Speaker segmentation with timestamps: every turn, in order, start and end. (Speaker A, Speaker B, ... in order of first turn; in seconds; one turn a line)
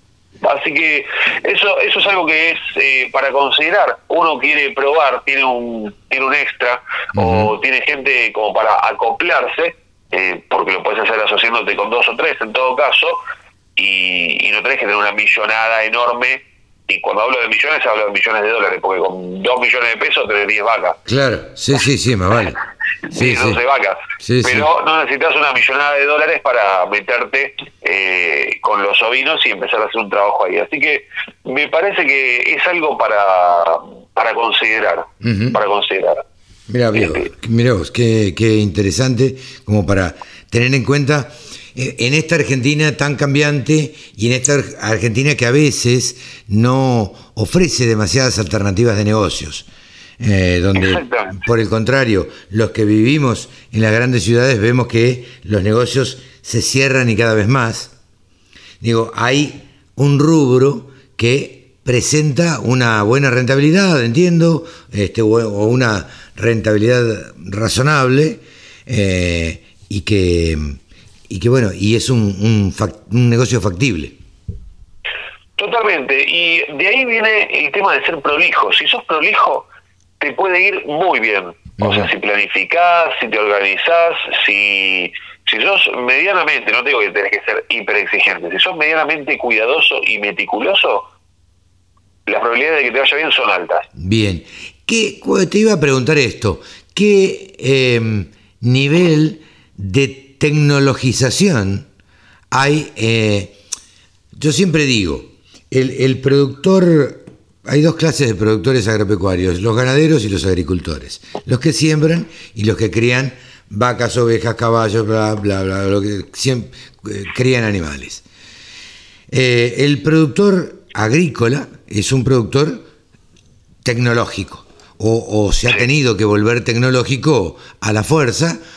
Speaker A: 0.4-13.2
Speaker B: 7.1-7.5
Speaker A: 13.8-20.9
Speaker B: 21.1-22.6
Speaker B: 23.1-23.6
Speaker A: 23.2-36.2
Speaker B: 24.2-24.7
Speaker B: 35.2-35.6
Speaker B: 36.7-49.7
Speaker A: 37.0-37.2
Speaker B: 50.2-57.9
Speaker A: 50.8-51.4
Speaker B: 58.8-70.8
Speaker B: 71.3-74.1
Speaker A: 75.6-79.7
Speaker A: 80.2-91.0
Speaker B: 81.8-82.1
Speaker A: 92.3-93.8
Speaker B: 94.0-101.8
Speaker B: 102.5-103.6
Speaker B: 104.3-118.2
Speaker B: 119.3-122.9
Speaker B: 123.8-128.6